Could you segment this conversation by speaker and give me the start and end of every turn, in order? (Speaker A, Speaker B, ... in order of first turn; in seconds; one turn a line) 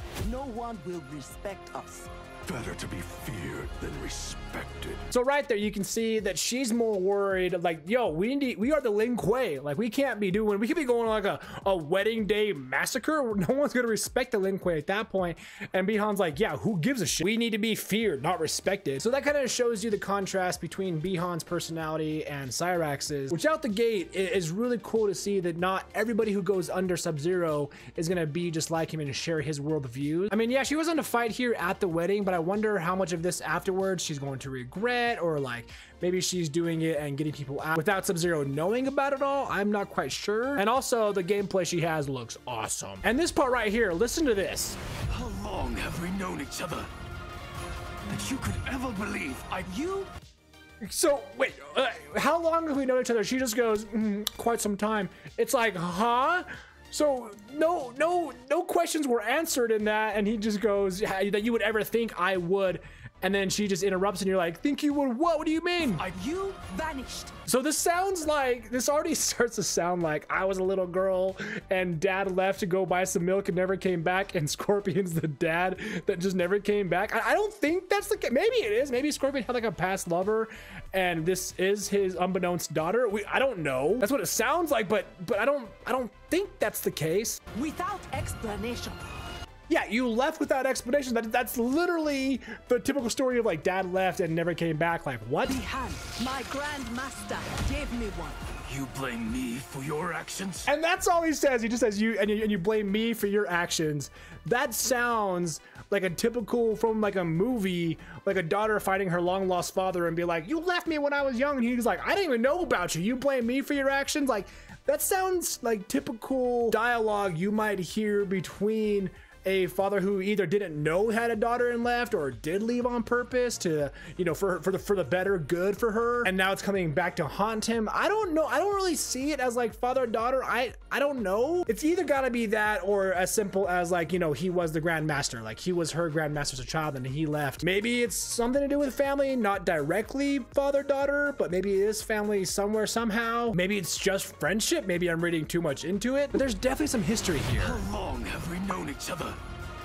Speaker A: 0.2-2.1
Speaker B: 2.5-5.0
Speaker C: 5.1-44.8
Speaker B: 45.1-46.9
Speaker B: 48.1-50.0
Speaker C: 50.8-66.1
Speaker A: 66.0-67.3
Speaker C: 67.5-87.4
Speaker A: 87.5-89.0
Speaker C: 89.7-95.6
Speaker A: 95.5-98.5
Speaker B: 98.7-100.7
Speaker C: 100.7-147.8
Speaker B: 147.6-149.4